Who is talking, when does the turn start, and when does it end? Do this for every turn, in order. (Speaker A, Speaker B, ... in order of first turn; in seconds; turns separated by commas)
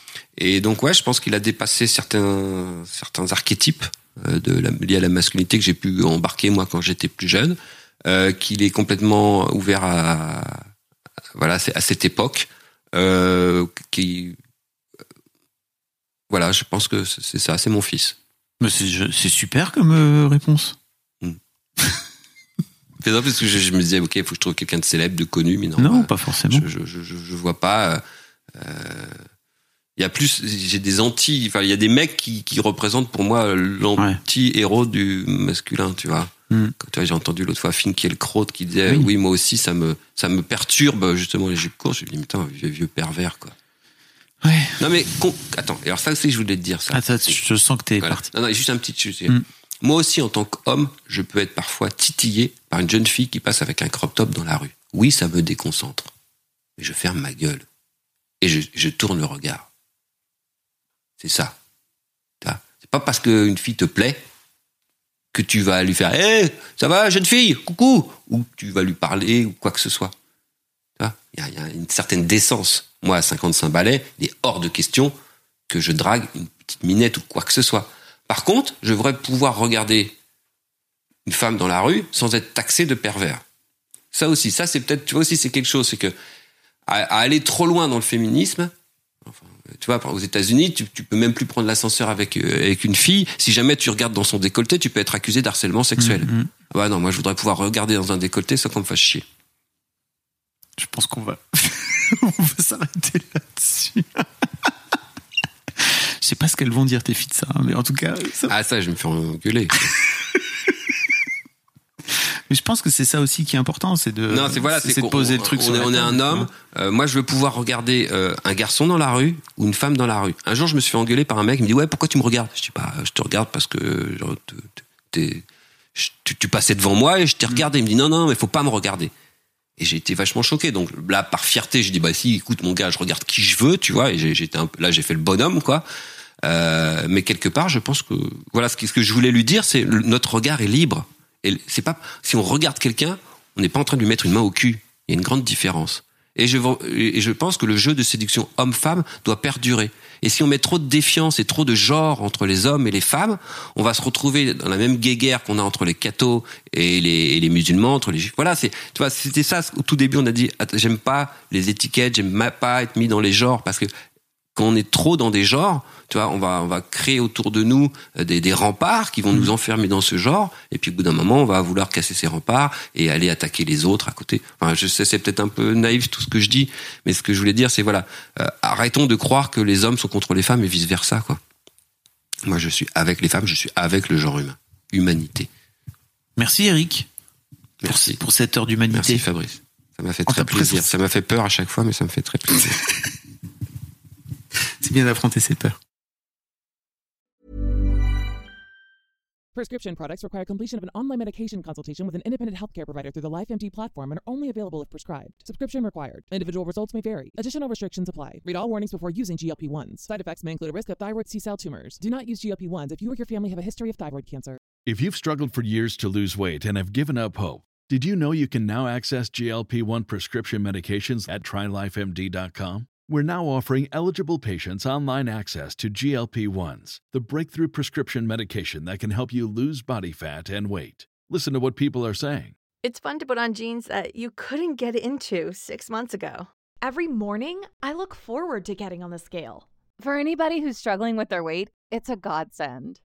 Speaker A: 0.4-10.6, Speaker A: 11.3-14.3, Speaker A: 16.3-18.2, Speaker B: 18.6-20.8, Speaker A: 23.0-28.0, Speaker B: 25.8-26.6, Speaker A: 28.5-29.2, Speaker A: 30.0-43.5, Speaker B: 44.4-44.8, Speaker A: 44.8-47.4, Speaker B: 46.9-48.2, Speaker A: 48.0-56.1, Speaker A: 56.8-57.6, Speaker A: 58.4-59.7, Speaker A: 61.2-61.5, Speaker A: 62.4-64.2, Speaker A: 65.3-70.1, Speaker A: 71.0-75.1, Speaker A: 75.7-80.1, Speaker A: 81.2-83.4, Speaker A: 84.1-86.1, Speaker A: 86.9-88.7, Speaker A: 89.2-99.2, Speaker B: 96.0-96.5, Speaker B: 100.8-104.7, Speaker B: 105.8-108.5, Speaker A: 108.5-110.0, Speaker B: 110.3-110.7, Speaker B: 112.5-116.5, Speaker A: 114.3-125.4, Speaker A: 126.0-129.1, Speaker A: 129.8-135.8, Speaker A: 136.4-163.9, Speaker A: 164.5-181.4, Speaker A: 182.4-185.5, Speaker B: 186.4-187.1, Speaker A: 187.8-188.2, Speaker B: 187.8-189.2, Speaker A: 188.9-192.8, Speaker B: 190.3-190.9, Speaker B: 194.8-195.8, Speaker C: 199.5-214.6, Speaker D: 214.8-232.6, Speaker E: 232.8-236.5, Speaker F: 236.8-243.0